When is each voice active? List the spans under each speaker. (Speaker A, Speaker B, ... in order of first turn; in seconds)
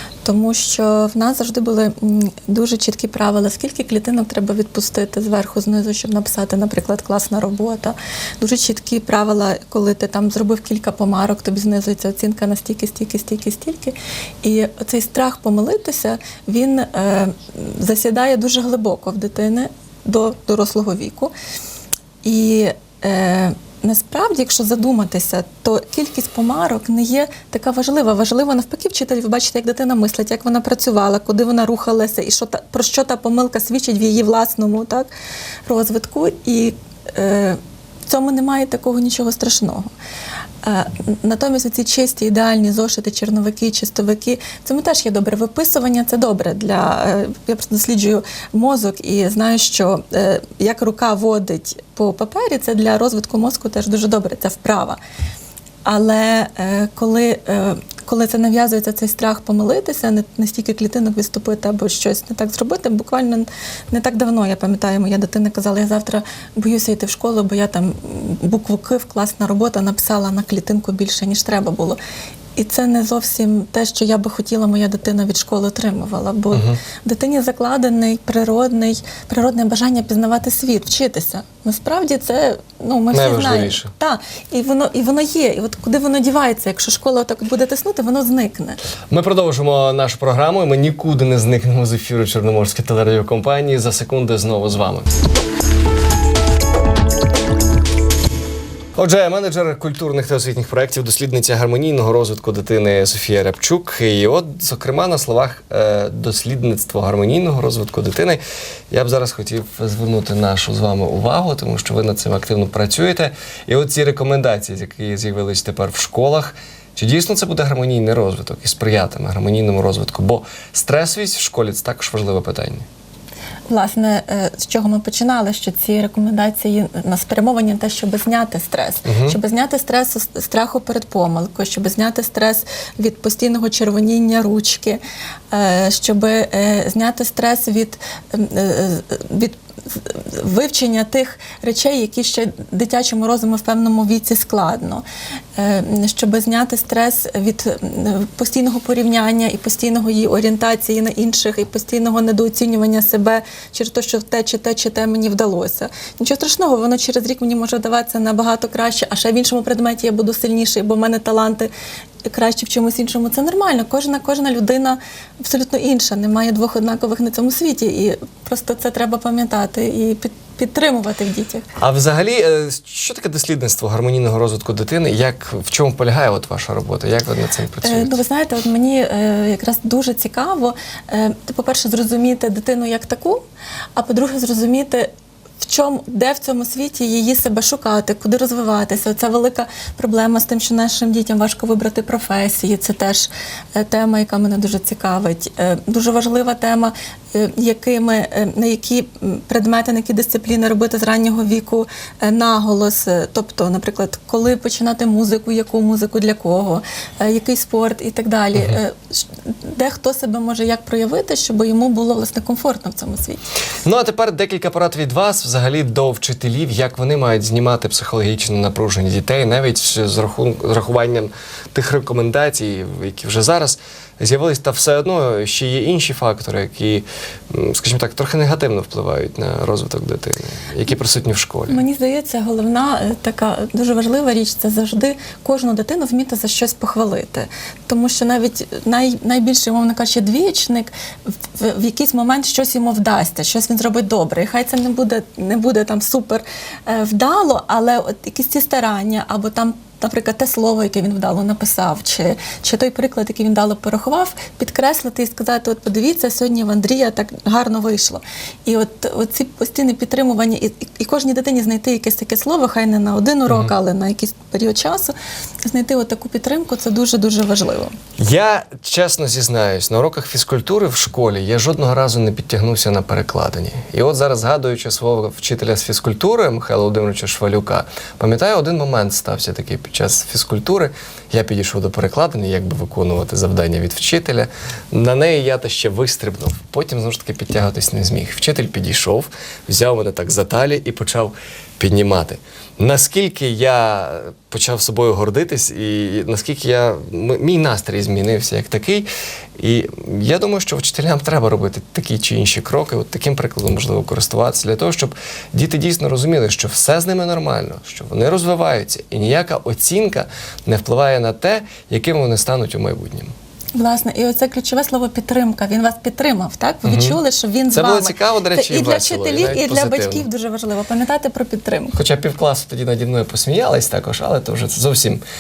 Speaker A: 0.2-21.3, 22.2-35.1, 35.7-39.9, 40.6-55.0, 55.9-72.0, 72.6-88.8, 123.7-135.0, 135.5-145.0, 145.6-161.7, 162.2-171.7, 177.8-183.4, 184.0-185.1, 185.6-213.4, 231.7-240.9, 241.5-265.1, 265.7-267.9, 313.8-322.0
Speaker B: 76.5-76.8, 83.1-83.9, 89.1-95.1, 99.0-122.9, 129.1-129.4, 171.8-178.2, 213.8-231.8, 263.5-263.7, 268.2-313.3, 316.8-320.3, 321.9-325.2